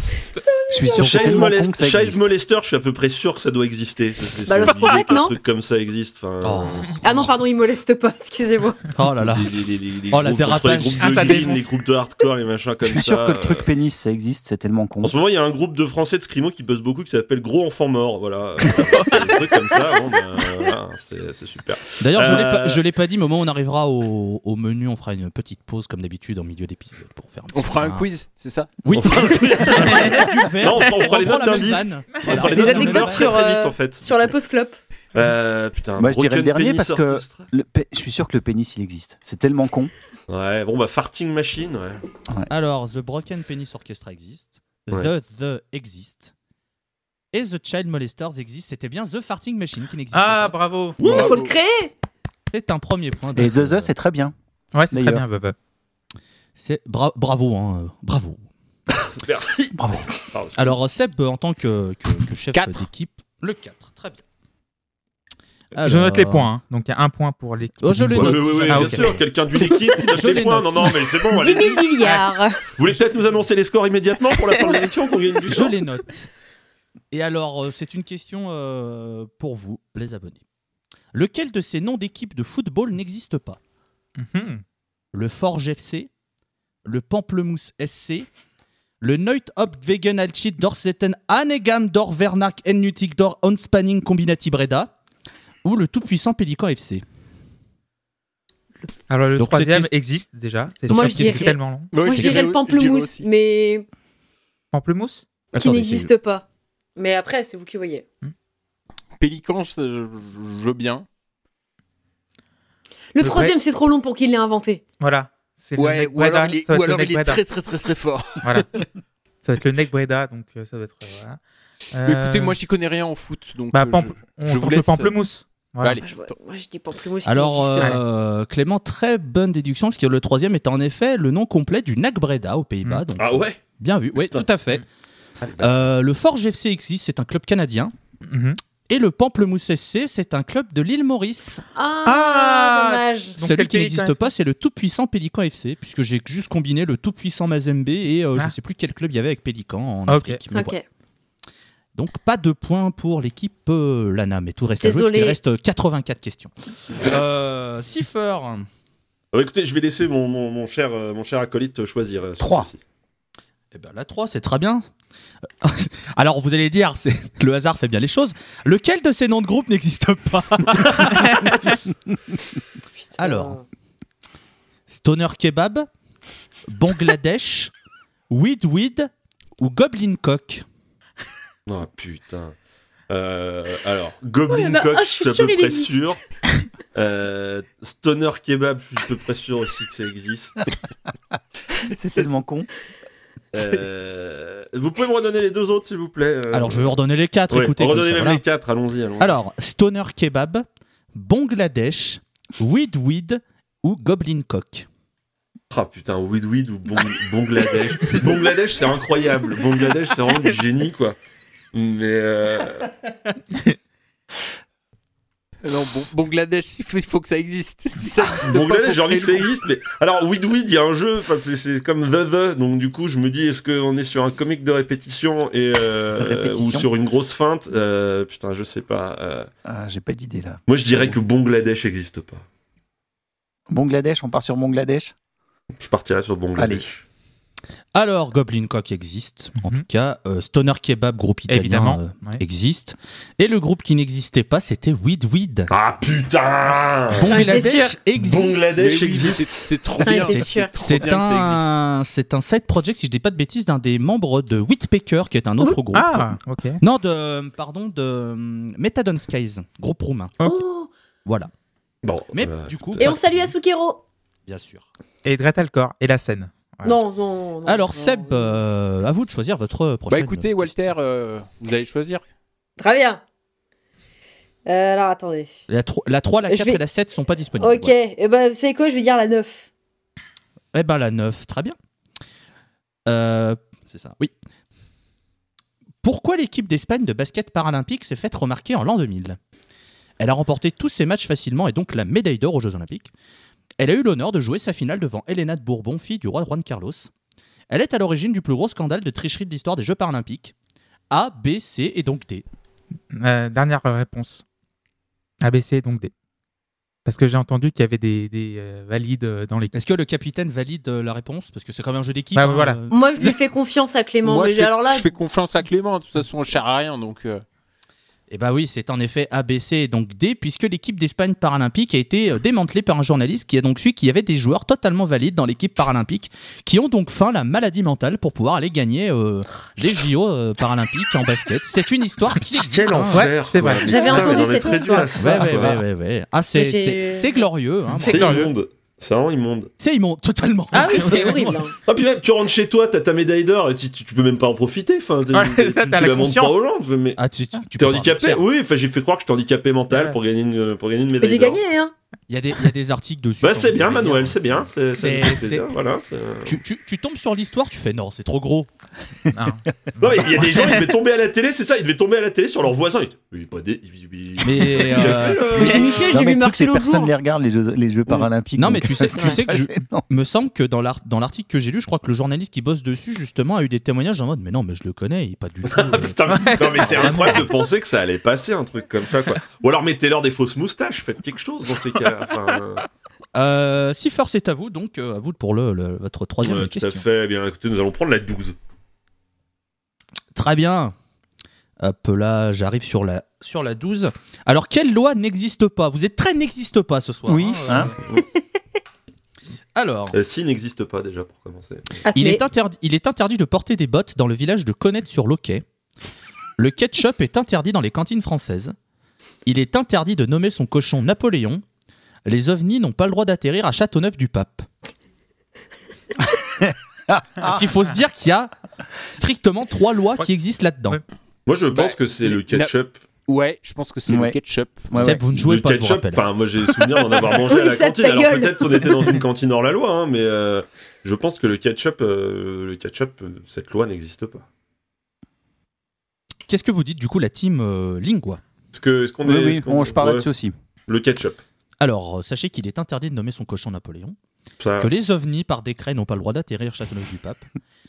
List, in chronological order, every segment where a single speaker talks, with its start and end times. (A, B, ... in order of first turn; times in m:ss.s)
0:00.4-0:01.2 A
0:00.7-0:02.2 B
0:00.9-0:06.9 C
0:04.5-0:05.3 A
0:04.7-0:05.0 D
0:06.4-0:07.3 E
0:06.9-0:08.8 A
0:08.9-0:11.6 E
0:09.2-0:13.6 C
0:11.0-0:11.6 D
0:12.8-0:15.2 B
0:15.0-0:22.8 C
0:18.7-0:19.1 E
0:18.8-0:19.4 D
0:22.0-0:28.1 E
0:27.5-0:28.7 F
0:28.8-0:33.3 E
0:28.9-0:34.3 C
0:32.4-0:34.8 A
0:35.1-0:37.5 C
0:36.0-0:39.9 B
0:40.3-0:42.0 C
0:42.5-0:46.3 E
0:47.3-0:50.6 E
0:50.1-0:51.3 D
0:51.0-0:51.4 C
0:51.0-0:51.3 F
0:51.1-0:51.9 A
0:52.5-0:53.9 E
0:53.4-0:54.3 B
0:54.7-0:55.6 D
0:54.9-0:55.2 B
0:56.6-0:58.4 E
0:59.1-1:00.8 C
0:59.8-1:00.1 B
1:00.6-1:04.2 E
1:02.5-1:02.8 F
1:05.8-1:06.5 E
1:05.8-1:09.2 D
1:07.8-1:09.2 E
1:08.1-1:11.9 C
1:10.0-1:11.1 E
1:11.3-1:12.6 A
1:12.8-1:15.8 C
1:15.4-1:16.3 E
1:17.1-1:20.4 E
1:21.1-1:23.6 E
1:24.2-1:24.6 D
1:25.1-1:26.1 E
1:26.8-1:28.3 E
1:29.0-1:34.9 E
1:35.6-1:37.0 E
1:39.1-1:42.0 D
1:39.4-1:39.9 E
1:40.8-1:41.6 E
1:40.9-1:43.9 A
1:41.9-1:43.3 F
1:42.1-1:42.4 E
1:44.7-1:45.3 D
1:45.5-1:46.1 E
1:45.5-1:46.4 A
1:47.0-1:48.0 A
1:49.2-1:51.1 F
1:53.2-1:54.8 A
1:53.2-1:53.6 D
1:55.0-1:57.4 D
1:55.8-1:58.9 F
1:58.4-1:58.7 D
1:59.4-2:01.4 D
2:01.9-2:02.6 D
2:02.0-2:05.2 F
2:03.7-2:06.0 D
2:05.8-2:06.3 F
2:06.0-2:08.0 A
2:07.2-2:14.8 E
2:13.2-2:13.6 C
2:15.4-2:15.8 C
2:15.6-2:17.9 E
2:18.3-2:18.6 D
2:18.9-2:21.6 E
2:21.8-2:23.4 A
2:22.0-2:24.3 D
2:23.4-2:30.8 E
2:30.1-2:30.4 D
2:30.5-2:30.8 A
2:32.0-2:38.7 E
2:34.8-2:35.4 A
2:39.3-2:42.8 C
2:42.4-2:42.7 B
2:43.7-2:44.9 E
2:45.6-2:51.7 E
2:51.2-2:51.5 D
2:53.0-2:53.6 A
2:53.2-2:53.6 E
2:54.9-2:55.9 E
2:56.7-2:57.7 E
2:58.3-3:00.6 E
3:01.7-3:02.6 C
3:03.1-3:06.2 C
3:04.5-3:06.2 A
3:06.9-3:10.8 C
3:11.9-3:12.7 B
3:13.5-3:17.0 C
3:16.5-3:18.4 E
3:17.5-3:19.3 C
3:19.2-3:24.9 E
3:25.7-3:31.2 C
3:31.7-3:32.9 C
3:35.6-3:39.5 F
3:38.5-3:49.5 C
3:46.2-3:46.9 B
3:49.6-3:51.2 B
3:50.7-3:52.4 C
3:53.7-3:55.1 B
3:55.8-3:57.0 C
3:56.6-3:56.9 B
3:57.9-4:05.7 E
4:01.5-4:02.4 D
4:05.7-4:07.3 C
4:07.1-4:08.7 E
4:07.3-4:08.0 A
4:07.3-4:07.7 D
4:08.2-4:09.7 C
4:08.7-4:11.7 F
4:10.0-4:10.7 A
4:10.2-4:20.4 E
4:15.9-4:16.8 D
4:20.4-4:20.9 A
4:21.2-4:21.5 E
4:22.0-4:23.2 C
4:22.3-4:23.5 E
4:23.0-4:24.0 A
4:24.5-4:24.9 E
4:25.2-4:27.0 D
4:26.8-4:28.5 A
4:27.7-4:30.9 E
4:30.1-4:32.2 F
4:32.8-4:33.2 A
4:34.7-4:35.5 A
4:35.7-4:37.9 E
4:36.5-4:36.8 A
4:37.6-4:39.7 A
4:40.7-4:41.8 E
4:43.1-4:44.3 E
4:46.0-4:49.4 E
4:50.2-4:53.1 E
4:53.8-4:57.1 E
4:57.7-5:00.5 E
5:01.1-5:02.4 E
5:03.1-5:04.4 D
5:05.4-5:06.1 D
5:07.0-5:09.8 D
5:09.7-5:13.3 E
5:12.4-5:12.8 D
5:12.9-5:15.1 A
5:14.2-5:17.4 F
5:18.3-5:33.3 E
5:32.6-5:35.8 C
5:33.1-5:34.6 D
5:33.8-5:35.3 A
5:35.2-5:38.5 E
5:36.6-5:37.4 A
5:37.9-5:38.5 D
5:38.0-5:39.7 C
5:39.8-5:41.6 E
5:40.7-5:41.7 A
5:41.0-5:41.5 D
5:41.8-5:47.2 C
5:45.3-5:46.6 D
5:47.2-5:48.4 E
5:47.8-5:51.6 C
5:49.9-5:50.2 D
5:51.2-5:51.9 A
5:52.3-5:55.7 E
5:53.4-5:56.6 C
5:56.4-5:58.7 E
5:59.3-6:00.8 D
6:00.0-6:06.2 C
6:04.4-6:05.9 E
6:05.5-6:07.1 A
6:05.5-6:10.0 B
6:08.6-6:17.5 E
6:15.7-6:22.9 C
6:16.3-6:16.8 D
6:23.3-6:27.0 E
6:26.4-6:28.6 C
6:30.3-6:31.0 E
6:31.8-6:38.0 E
6:37.3-6:37.9 B
6:39.8-6:40.2 E
6:40.1-6:42.0 C
6:42.1-6:42.4 A
6:42.1-6:45.6 E
6:46.6-6:48.8 E
6:49.5-6:51.6 E
6:52.3-6:54.7 E
6:56.6-6:57.6 B
6:57.4-6:58.5 E
6:59.1-7:01.0 E
7:01.5-7:03.0 C
7:01.7-7:02.7 F
7:03.3-7:04.9 F
7:04.1-7:04.4 B
7:04.9-7:05.2 B
7:05.0-7:06.3 E
7:05.3-7:14.5 C
7:07.5-7:09.2 A
7:16.5-7:18.4 E
7:18.7-7:20.3 C
7:19.3-7:20.6 B
7:20.9-7:21.4 C
7:21.8-7:24.2 E
7:24.6-7:24.9 C
7:24.8-7:27.4 E